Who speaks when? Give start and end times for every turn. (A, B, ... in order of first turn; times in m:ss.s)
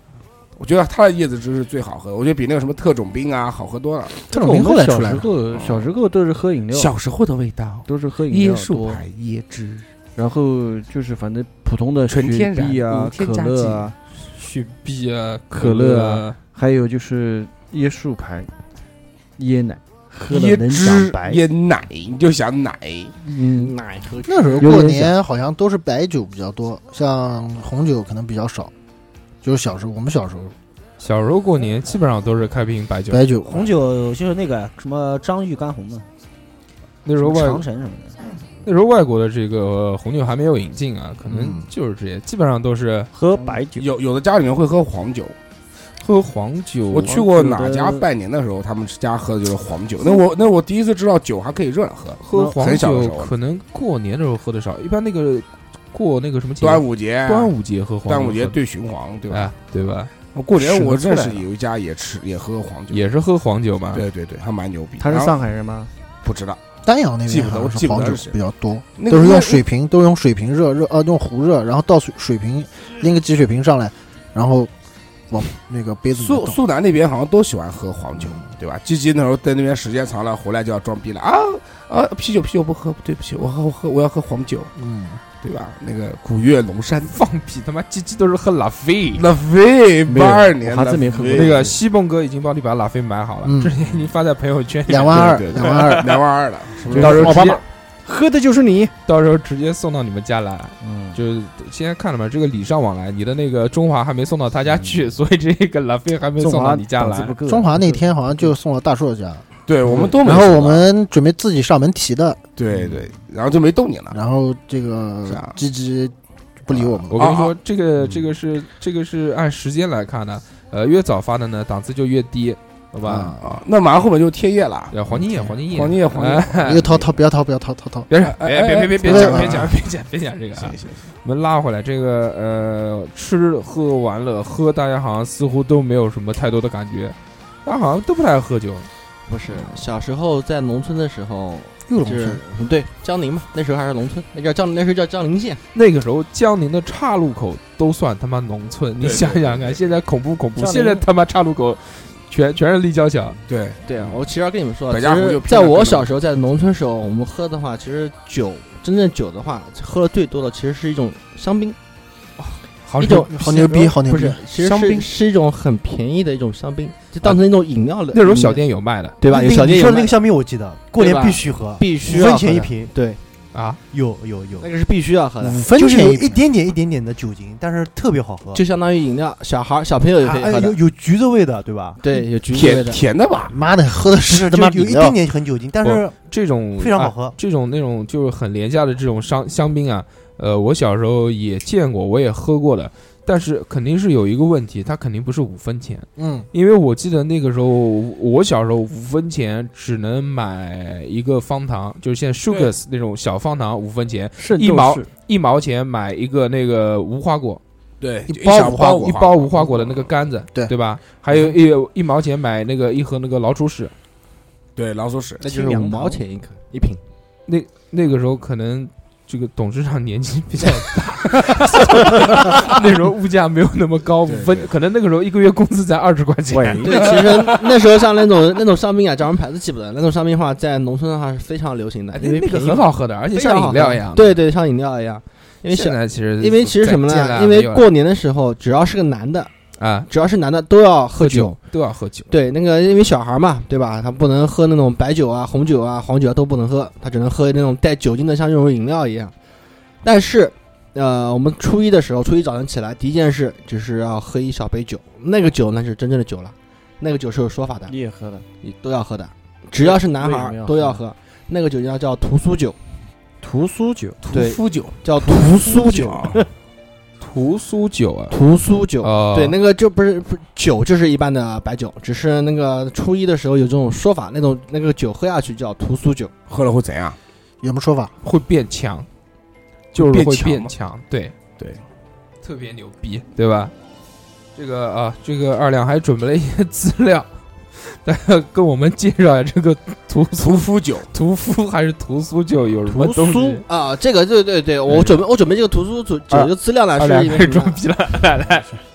0:00.6-0:04.2 A
0:04.3-0:05.3 B
0:04.3-0:06.9 C
0:05.5-0:05.9 A
0:06.7-0:09.9 A
0:07.9-0:09.0 C
0:10.2-0:14.0 C
0:12.1-0:13.9 A
0:14.1-0:16.4 D
0:15.5-0:18.5 C
0:19.4-0:21.4 C
0:20.3-0:23.1 A
0:23.2-0:23.7 C
0:23.5-0:24.8 E
0:24.2-0:28.7 B
0:24.6-0:25.1 C
0:29.4-0:30.6 B
0:31.0-0:33.3 D
0:33.1-0:33.7 B
0:33.5-0:36.0 F
0:37.0-0:37.6 D
0:37.2-0:38.2 F
0:38.6-0:43.1 D
0:41.3-0:41.6 B
0:43.1-0:43.9 C
0:43.8-0:45.4 A
0:46.0-0:47.2 D
0:46.9-0:53.3 A
0:47.1-0:48.1 C
0:52.2-0:58.6 D
0:56.6-0:57.5 A
0:58.1-0:59.5 A
0:59.3-1:00.1 D
1:00.3-1:03.0 A
1:00.6-1:01.4 C
1:02.9-1:04.0 D
1:03.9-1:05.3 A
1:05.0-1:05.9 C
1:06.2-1:06.6 A
1:06.8-1:14.7 B
1:07.3-1:08.3 A
1:09.0-1:09.6 A
1:15.3-1:16.6 B
1:16.1-1:24.7 A
1:18.2-1:18.4 B
1:24.8-1:25.2 B
1:25.4-1:27.2 A
1:27.1-1:29.3 D
1:29.2-1:31.7 A
1:30.1-1:31.8 C
1:31.3-1:36.2 D
1:33.4-1:33.8 B
1:34.9-1:36.2 B
1:35.1-1:37.5 A
1:36.9-1:37.4 B
1:36.9-1:37.6 D
1:37.0-1:38.9 C
1:39.1-1:47.4 D
1:40.8-1:41.2 C
1:46.4-1:48.4 C
1:47.5-1:49.4 B
1:49.7-1:50.9 A
1:50.0-1:52.4 B
1:52.6-1:54.2 A
1:54.1-1:57.2 B
1:55.3-1:55.6 A
1:56.7-1:58.3 A
1:57.1-2:03.4 D
2:03.0-2:03.4 B
2:03.2-2:05.0 A
2:04.9-2:06.9 D
2:05.7-2:07.1 A
2:06.6-2:08.1 B
2:08.1-2:18.9 D
2:08.2-2:09.7 A
2:09.0-2:09.7 B
2:10.5-2:11.0 A
2:19.3-2:25.6 E
2:21.9-2:22.4 B
2:25.7-2:33.4 D
2:29.0-2:29.8 A
2:30.6-2:31.0 C
2:33.5-2:34.2 A
2:33.9-2:41.8 E
2:34.9-2:36.1 A
2:42.4-2:43.7 D
2:43.0-2:48.5 E
2:43.3-2:44.4 B
2:48.1-2:49.2 D
2:49.2-2:50.2 E
2:49.2-2:52.9 G
2:51.0-2:53.2 E
2:53.5-2:53.8 D
2:53.9-2:54.7 G
2:54.6-2:55.6 E
2:55.4-2:58.6 G
2:55.6-2:56.4 B
2:58.6-3:00.8 E
3:00.2-3:02.0 G
3:02.0-3:03.0 E
3:02.5-3:03.6 A
3:03.5-3:05.2 B
3:04.3-3:06.2 G
3:05.8-3:27.6 D
3:06.8-3:07.4 G
3:16.2-3:16.5 B
3:24.4-3:25.1 C
3:28.0-3:30.1 A
3:28.3-3:28.8 B
3:28.4-3:33.9 D
3:34.8-3:35.7 A
3:35.4-3:37.0 E
3:35.7-3:36.1 C
3:37.5-3:47.7 D
3:44.3-3:44.7 A
3:46.5-3:47.1 C
3:46.8-3:59.5 E
3:52.2-3:54.4 D
3:55.7-3:57.9 D
3:59.8-4:00.1 D
4:00.1-4:01.6 E
4:01.2-4:02.3 D
4:02.3-4:09.3 E
4:10.0-4:17.9 E
4:17.9-4:18.4 C
4:18.6-4:22.8 E
4:19.8-4:21.0 C
4:23.4-4:24.2 C
4:24.2-4:26.4 A
4:24.3-4:26.3 E
4:27.2-4:28.4 D
4:28.3-4:36.3 E
4:29.0-4:29.6 D
4:36.5-4:37.2 A
4:37.6-4:38.1 B
4:38.2-4:39.1 D
4:39.9-4:41.3 D
4:40.0-4:40.7 A
4:42.4-4:43.7 D
4:44.6-4:47.3 D
4:47.8-4:53.6 D
4:50.4-4:51.1 A
4:52.9-4:53.6 C
4:53.7-4:57.8 E
4:54.9-4:55.1 D
4:56.3-4:58.7 D